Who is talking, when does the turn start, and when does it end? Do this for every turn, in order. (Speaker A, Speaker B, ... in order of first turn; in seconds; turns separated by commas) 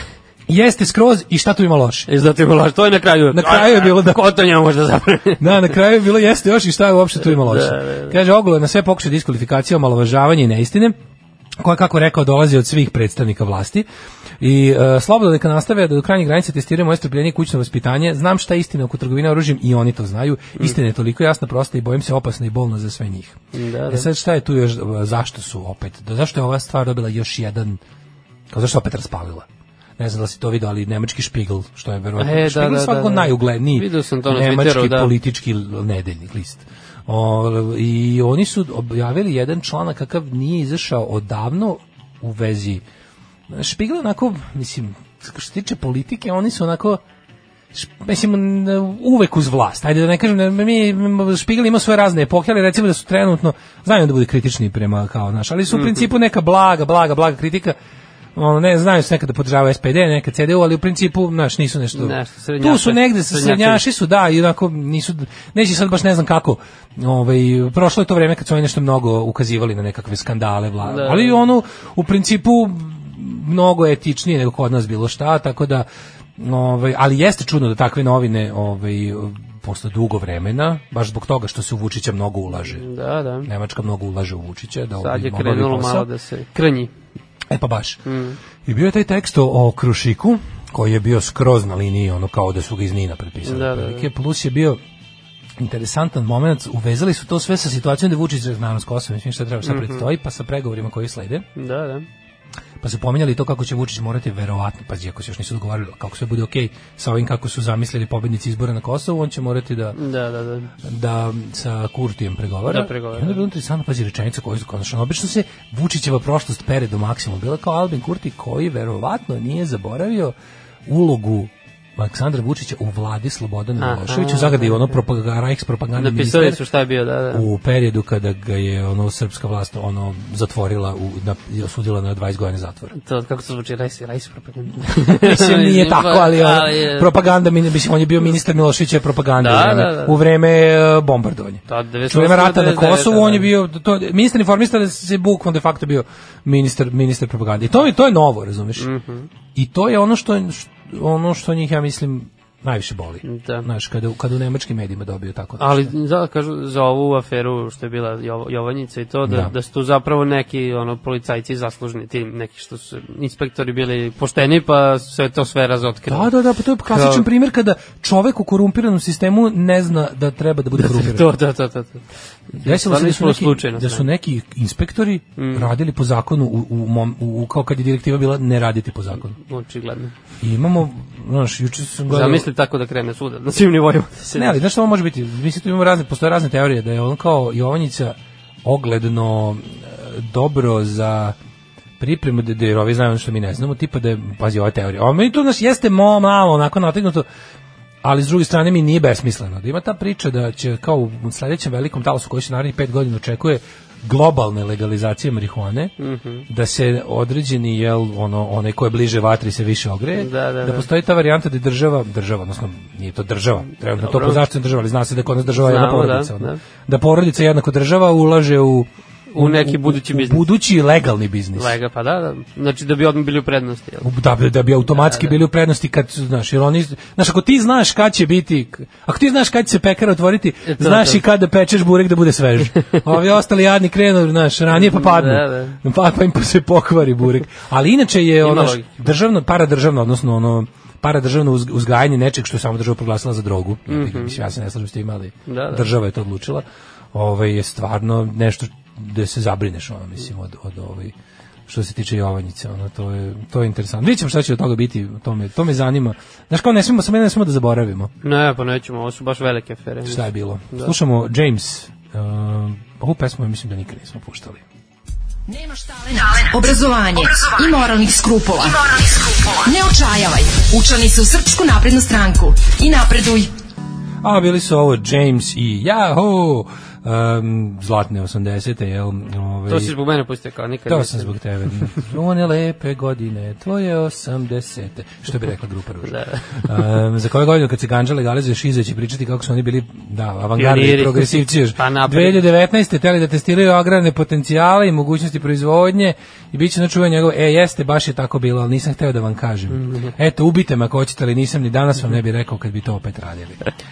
Speaker A: 0.5-2.1, Speaker B: 2.1-5.6, Speaker A: 3.3-4.2, Speaker A: 5.4-10.9, Speaker B: 7.3-8.1, Speaker A: 11.6-13.8, Speaker A: 14.4-27.8, Speaker B: 23.5-24.1, Speaker A: 28.5-29.5, Speaker A: 30.0-42.8, Speaker B: 32.2-35.1, Speaker A: 43.5-47.0, Speaker A: 47.7-57.8, Speaker A: 58.4-75.9, Speaker B: 61.9-63.8, Speaker B: 70.8-71.3, Speaker A: 76.4-82.8, Speaker B: 82.7-83.5, Speaker A: 83.4-86.1, Speaker B: 85.0-86.9, Speaker A: 87.5-88.0, Speaker B: 88.0-88.4, Speaker A: 88.6-94.8, Speaker B: 93.4-94.1, Speaker A: 95.6-101.5, Speaker B: 99.6-100.1, Speaker B: 101.5-102.1, Speaker A: 102.8-110.0, Speaker B: 109.9-110.7, Speaker A: 110.8-120.3, Speaker B: 112.7-113.4, Speaker A: 120.8-126.6, Speaker B: 123.8-125.0, Speaker B: 126.0-127.5, Speaker A: 127.3-132.9, Speaker B: 132.9-137.1, Speaker A: 134.9-148.9, Speaker B: 139.4-140.2, Speaker B: 141.7-143.5, Speaker B: 148.8-149.3, Speaker A: 149.5-155.9, Speaker B: 153.2-153.7, Speaker B: 155.6-166.3, Speaker A: 159.2-159.5, Speaker A: 166.1-171.3, Speaker B: 166.9-167.2, Speaker B: 170.7-174.1, Speaker A: 172.6-179.4, Speaker B: 175.4-175.7, Speaker B: 179.3-180.1, Speaker A: 180.4-182.5, Speaker B: 182.1-184.6, Speaker A: 184.3-191.3, Speaker A: 192.0-197.2, Speaker A: 198.0-205.9, Speaker B: 206.0-206.4, Speaker A: 206.5-221.8, Speaker B: 210.2-210.9, Speaker B: 214.0-214.4, Speaker B: 215.6-216.6, Speaker B: 219.3-220.5, Speaker B: 221.6-224.1, Speaker A: 224.0-251.1, Speaker B: 224.9-225.3, Speaker B: 230.7-231.2, Speaker B: 234.7-235.8, Speaker B: 238.4-238.9, Speaker B: 243.9-244.4, Speaker B: 245.5-245.9, Speaker A: 251.7-258.1, Speaker B: 258.2-260.9, Speaker A: 260.1-264.6, Speaker C: 265.5-273.5, Speaker A: 274.2-279.9, Speaker B: 279.7-281.3, Speaker A: 280.9-303.6, Speaker B: 286.1-286.7, Speaker B: 290.6-292.4, Speaker B: 299.7-300.1